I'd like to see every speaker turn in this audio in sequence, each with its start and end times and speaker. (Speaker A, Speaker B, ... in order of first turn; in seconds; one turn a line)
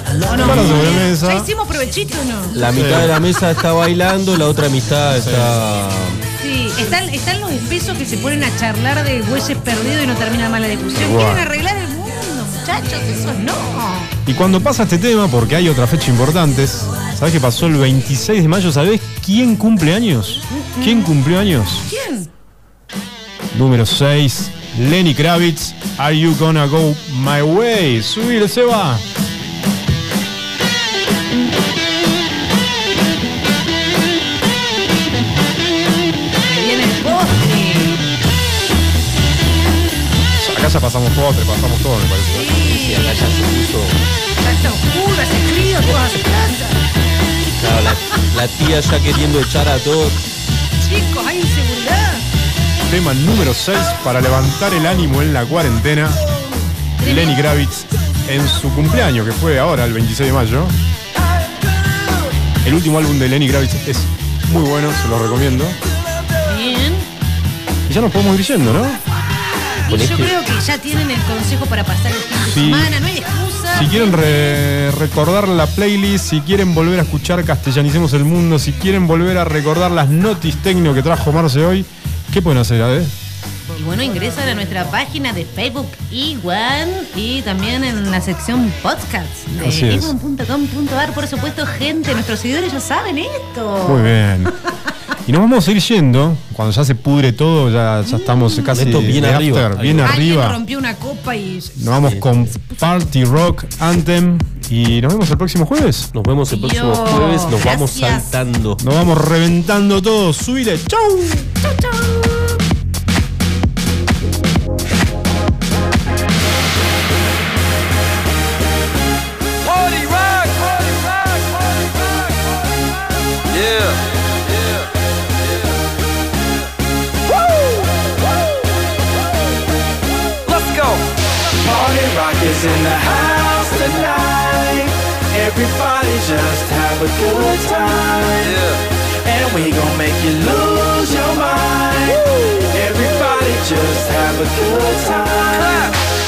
Speaker A: 0.2-2.5
Speaker B: 0.3-1.5
Speaker C: 0.4-1.0
Speaker C: 2.5-6.2
Speaker B: 2.7-3.1
Speaker B: 5.1-5.6
Speaker A: 6.4-14.1
Speaker B: 10.9-11.5
Speaker B: 14.3-21.9
Speaker A: 20.5-21.1
Speaker A: 21.9-22.3
Speaker B: 23.5-29.1
Speaker A: 36.5-38.0
Speaker B: 40.4-42.6
Speaker A: 42.3-43.4
Speaker C: 42.5-44.0
Speaker A: 44.4-46.8
Speaker C: 47.6-50.2
Speaker A: 50.8-52.2
Speaker B: 52.9-56.2
Speaker B: 57.0-60.7
Speaker A: 57.0-57.3
Speaker B: 62.6-65.8
Speaker A: 66.4-67.1
Speaker B: 67.9-69.0
Speaker A: 69.8-74.6
Speaker C: 69.9-70.5
Speaker B: 72.5-73.0
Speaker B: 73.7-83.1
Speaker A: 83.7-94.2
Speaker B: 89.5-90.1
Speaker B: 93.8-94.5
Speaker B: 95.3-100.6
Speaker A: 98.1-98.9
Speaker C: 98.7-100.2
Speaker A: 100.0-103.1
Speaker B: 101.8-106.1
Speaker C: 106.2-108.8
Speaker A: 106.5-108.3
Speaker B: 108.8-111.5
Speaker A: 111.6-112.6
Speaker D: 131.7-134.8
Speaker D: 135.4-138.6
Speaker D: 139.3-142.2
Speaker D: 142.8-145.8